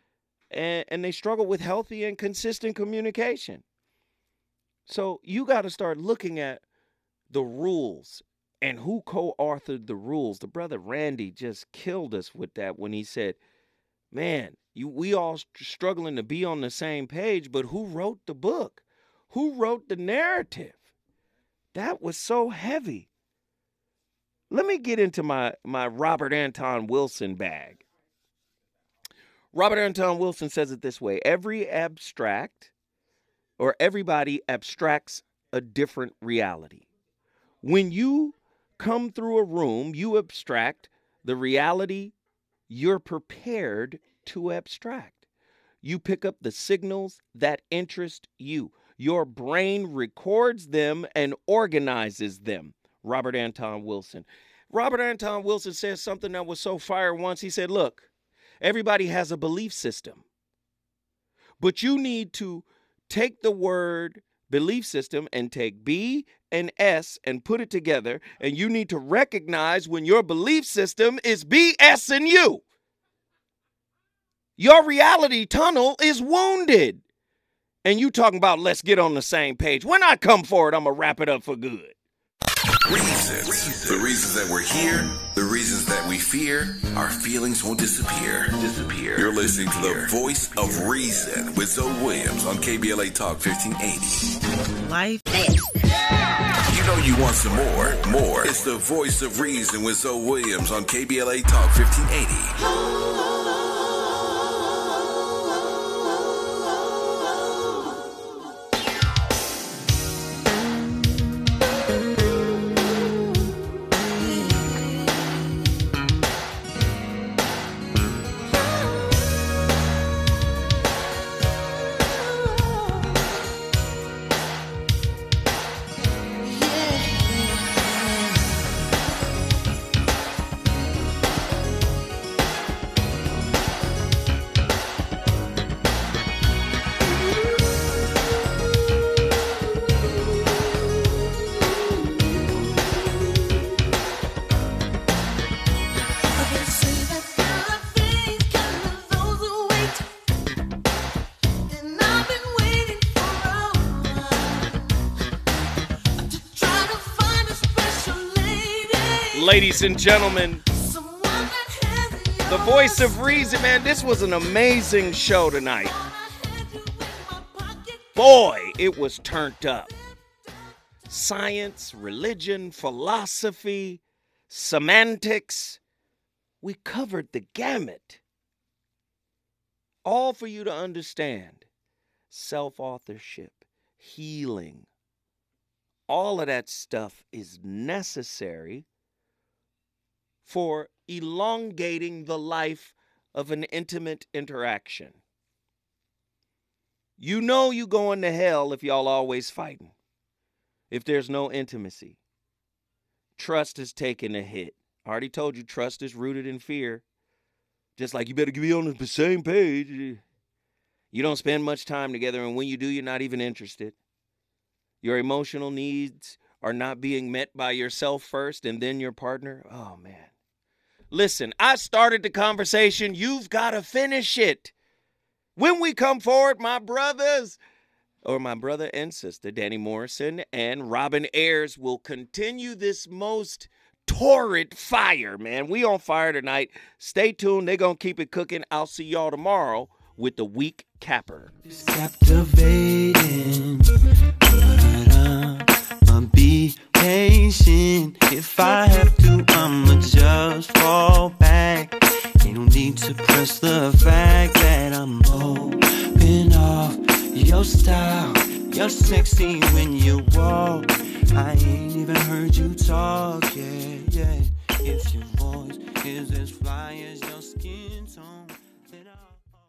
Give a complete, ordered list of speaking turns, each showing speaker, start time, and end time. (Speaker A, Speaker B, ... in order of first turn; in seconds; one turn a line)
Speaker A: 0.5-3.6
Speaker A: 4.9-6.6
Speaker A: 7.3-13.4
Speaker A: 14.1-20.8
Speaker A: 21.7-23.1
Speaker A: 24.5-27.8
Speaker A: 29.5-32.7
Speaker A: 33.6-36.9
Speaker A: 37.6-42.1
Speaker A: 42.7-45.2
Speaker A: 45.8-58.1
Speaker A: 58.6-60.2
Speaker A: 61.6-72.6
Speaker A: 74.6-77.0
Speaker A: 77.8-81.9
Speaker B: 82.8-94.3
Speaker C: 94.8-95.4
Speaker B: 96.7-102.5
Speaker C: 102.7-103.7
Speaker C: 114.5-114.8
Speaker C: 122.5-123.1
Speaker C: 126.4-128.4
Speaker C: 146.2-150.1
Speaker C: 151.7-154.7
Speaker C: 156.2-159.8
Speaker A: 159.3-160.6
Speaker C: 160.7-164.0
Speaker A: 162.5-165.9
Speaker C: 165.8-168.8
Speaker A: 168.2-169.9
Speaker A: 171.1-175.8
Speaker A: 176.6-178.2
Speaker A: 180.0-181.7
Speaker A: 182.3-184.9
Speaker A: 186.1-188.8
Speaker A: 190.4-195.2
Speaker A: 197.2-199.9
Speaker A: 200.9-202.2
Speaker A: 203.4-207.0
Speaker A: 208.0-210.2
Speaker A: 211.1-213.9
Speaker A: 215.0-220.3
Speaker A: 221.1-224.7
Speaker A: 225.6-227.6
Speaker A: 228.2-241.6
Speaker C: 241.7-269.4